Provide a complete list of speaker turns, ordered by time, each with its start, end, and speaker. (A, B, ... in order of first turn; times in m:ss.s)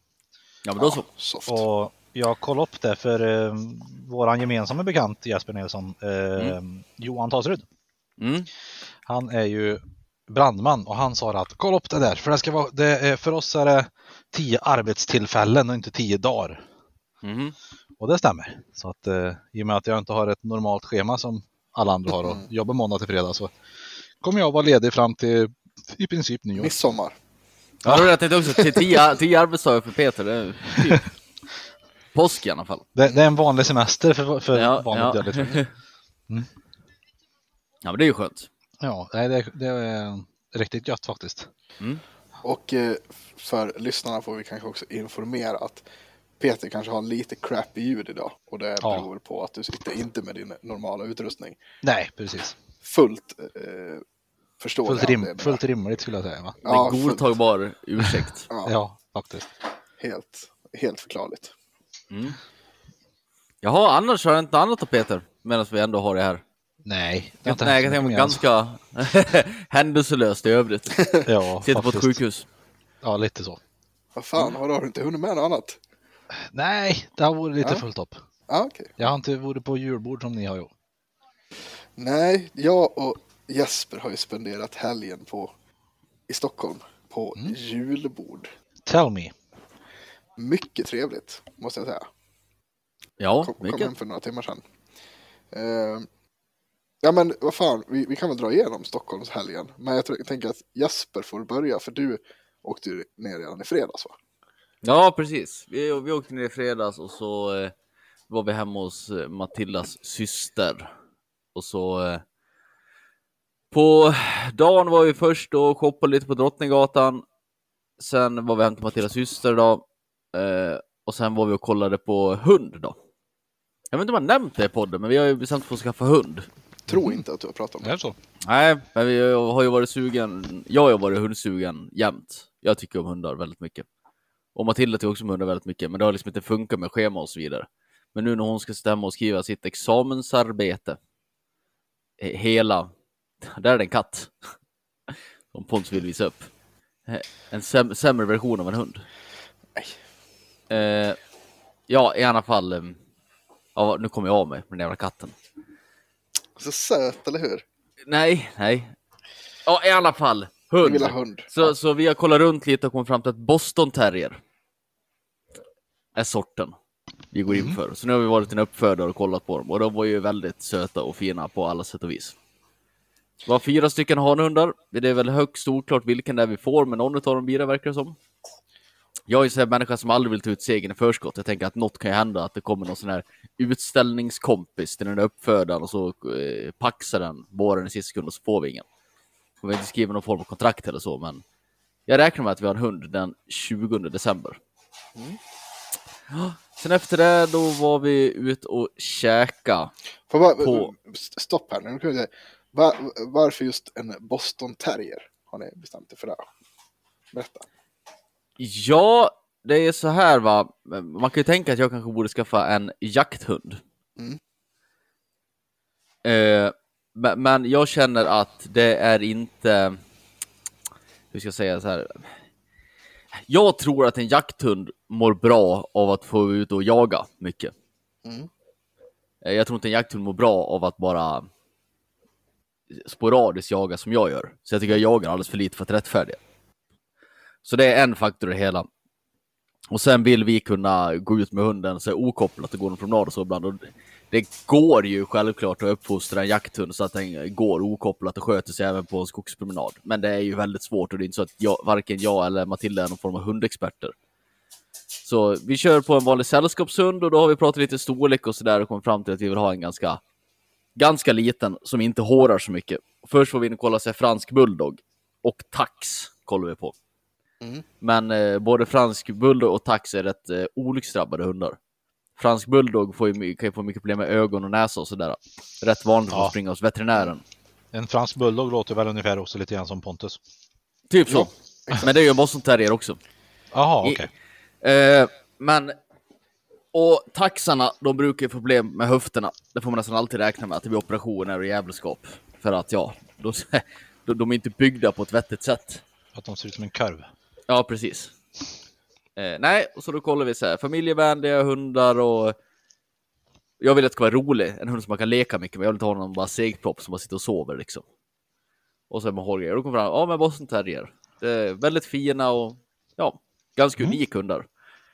0:00.6-0:01.0 A
0:00.8-0:01.6 B
0:01.5-0:07.6 C
0:08.2-0:08.5 A
0:09.0-0:16.6 C
0:17.2-0:17.5 A
0:18.0-0:23.5 C
0:22.1-0:22.4 B
0:24.2-0:26.7 C
0:26.6-0:27.2 B
0:27.8-0:31.1 A
0:28.4-0:29.0 B
0:32.1-0:32.9 A
0:32.9-0:35.6 C
0:34.5-0:35.7 A
0:37.8-0:38.5 A
0:38.8-0:41.5 C
0:42.4-0:45.8 B
0:46.4-0:51.6 B
0:48.8-0:49.1 C
0:51.8-0:52.6 C
0:52.8-0:54.0 B
0:54.6-0:55.6 B
0:54.8-0:56.6 C
0:56.6-0:57.3 B
0:56.6-0:58.5 A
0:58.6-0:59.5 C
1:00.0-1:01.5 B
1:02.1-1:02.4 A
1:03.6-1:06.4 A
1:06.8-1:08.4 C
1:07.4-1:12.4 A
1:11.0-1:11.2 B
1:11.2-1:12.2 C
1:13.0-1:13.6 C
1:14.2-1:15.8 B
1:16.5-1:18.2 C
1:18.5-1:19.0 B
1:19.0-1:20.7 C
1:22.0-1:25.5 B
1:26.3-1:28.5 B
1:28.9-1:29.3 C
1:30.4-1:32.0 B
1:33.2-1:33.9 A
1:33.4-1:34.6 B
1:35.5-1:36.1 B
1:37.0-1:44.1 B
1:44.8-1:47.7 A
1:48.3-1:50.8 A
1:51.5-1:52.2 A
1:53.7-1:57.2 A
1:58.0-2:03.0 A
2:03.9-2:06.5 A
2:06.9-2:07.9 B
2:06.9-2:07.2 C
2:07.8-2:08.2 C
2:08.4-2:13.8 A
2:14.5-2:21.0 A
2:22.2-2:22.9 A
2:23.4-2:24.3 A
2:25.5-2:26.5 A
2:27.1-2:29.0 A
2:30.7-2:31.2 A
2:31.9-2:33.0 A
2:33.8-2:35.3 A
2:36.6-2:37.6 B
2:38.0-2:38.9 A
2:39.6-2:44.4 A
2:40.8-2:41.8 B
2:46.1-2:46.7 A
2:47.3-2:52.3 A
2:53.4-2:58.2 A
2:59.3-3:08.8 A
3:09.6-3:11.4 A
3:12.1-3:14.6 A
3:16.3-3:19.9 A
3:20.3-3:26.4 B
3:20.6-3:20.9 A
3:27.3-3:27.6 B
3:28.6-3:33.8 A
3:36.2-3:40.0 A
3:41.3-3:42.3 A
3:43.5-3:47.7 A
3:48.2-3:48.5 B
3:49.4-3:51.5 A
3:52.9-3:56.4 A
3:57.6-3:58.9 A
3:59.9-4:14.1 A
4:15.2-4:20.2 A
4:21.0-4:26.9 A
4:28.0-4:31.8 A
4:32.4-4:37.4 A
4:37.9-4:40.4 C
4:41.1-4:43.2 A
4:41.3-4:42.0 B
4:43.7-4:44.3 C
4:44.8-4:45.9 A
4:46.9-4:56.0 A
4:56.3-4:57.3 C
4:57.7-4:58.3 A
4:59.4-5:02.6 A
5:03.8-5:08.0 A
5:09.1-5:14.6 A